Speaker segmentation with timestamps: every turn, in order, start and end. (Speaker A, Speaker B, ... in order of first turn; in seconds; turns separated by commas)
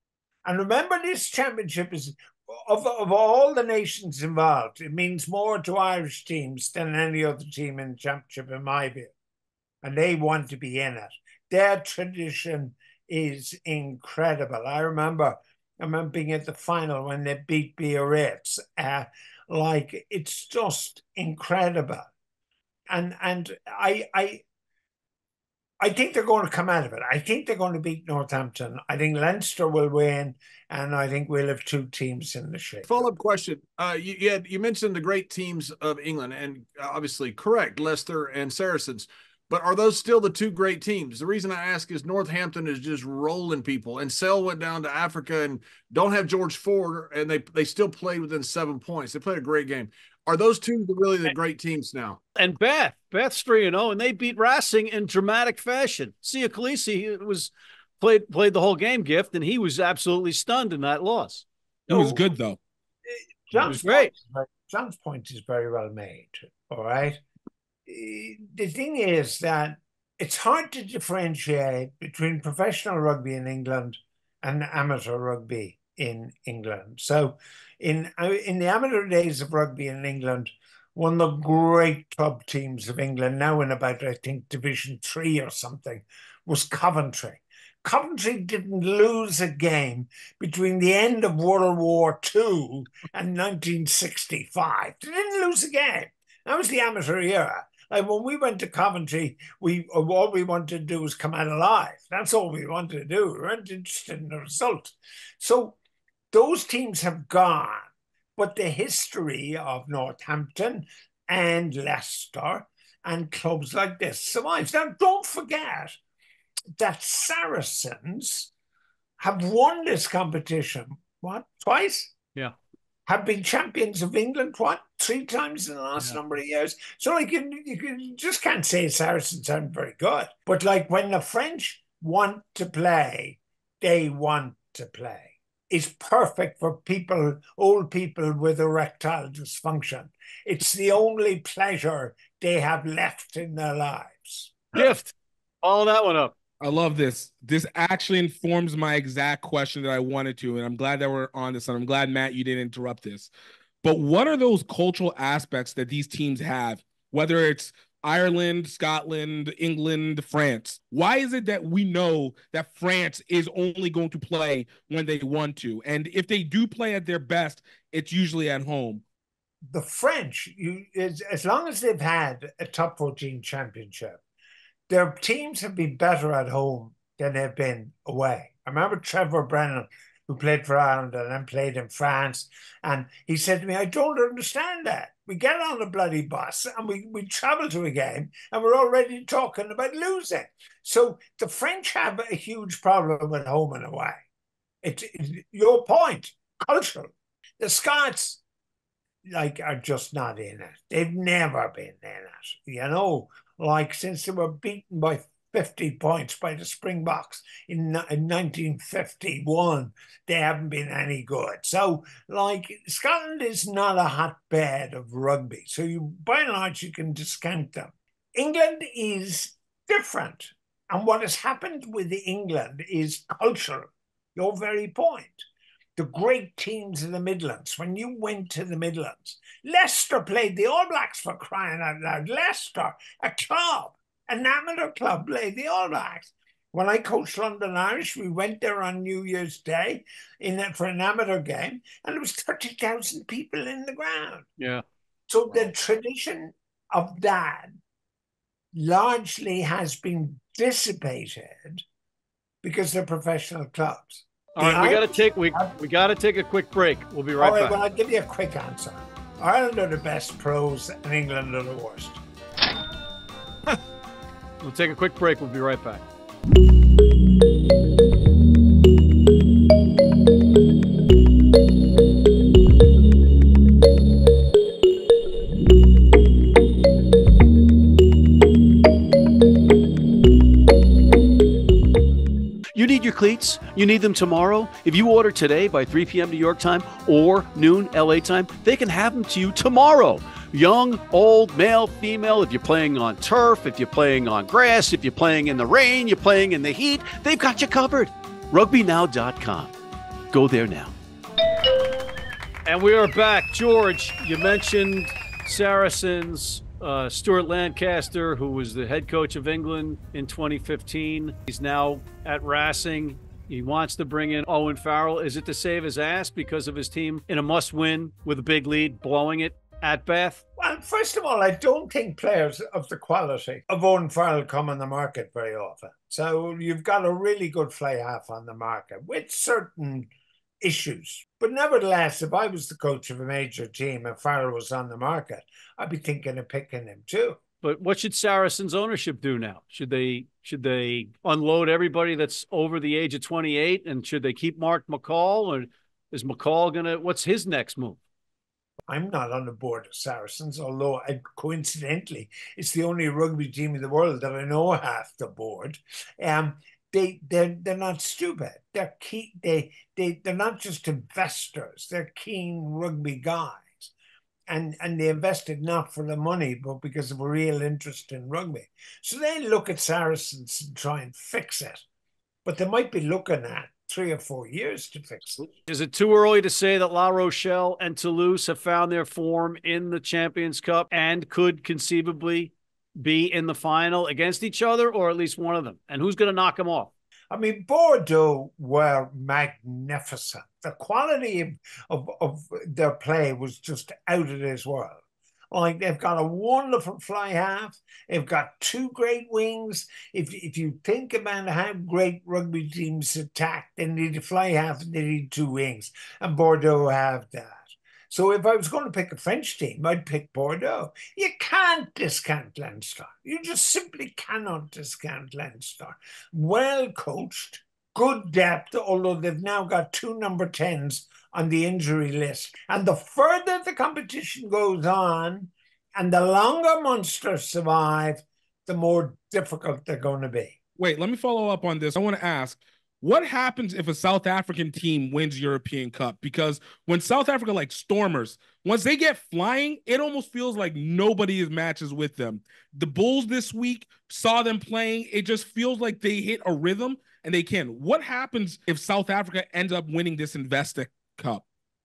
Speaker A: 0.4-9.1, Speaker A: 9.8-22.1, Speaker A: 22.9-24.4, Speaker A: 25.8-33.1, Speaker B: 32.9-52.2, Speaker C: 52.4-61.4, Speaker A: 61.9-62.2, Speaker D: 61.9-62.6, Speaker A: 63.5-67.2, Speaker C: 63.6-64.1, Speaker A: 67.9-105.8, Speaker A: 106.3-116.0, Speaker A: 116.8-118.5, Speaker A: 119.2-122.1, Speaker A: 123.1-144.6, Speaker C: 144.8-146.3, Speaker D: 146.6-153.3, Speaker D: 153.8-169.0, Speaker A: 169.7-174.2, Speaker A: 174.9-194.2, Speaker A: 194.8-198.4, Speaker A: 199.2-244.5, Speaker A: 245.3-247.8, Speaker A: 248.7-251.8, Speaker A: 252.6-255.7, Speaker C: 254.6-257.8, Speaker A: 257.4-262.2, Speaker C: 264.6-266.0, Speaker C: 282.8-299.7, Speaker C: 300.3-300.9, Speaker C: 302.6-320.4, Speaker A: 320.6-330.1, Speaker A: 330.6-337.4, Speaker C: 337.6-348.0, Speaker A: 348.9-363.9, Speaker A: 364.5-371.8, Speaker A: 372.4-375.5, Speaker C: 375.5-386.9, Speaker A: 387.3-430.6, Speaker D: 430.8-451.4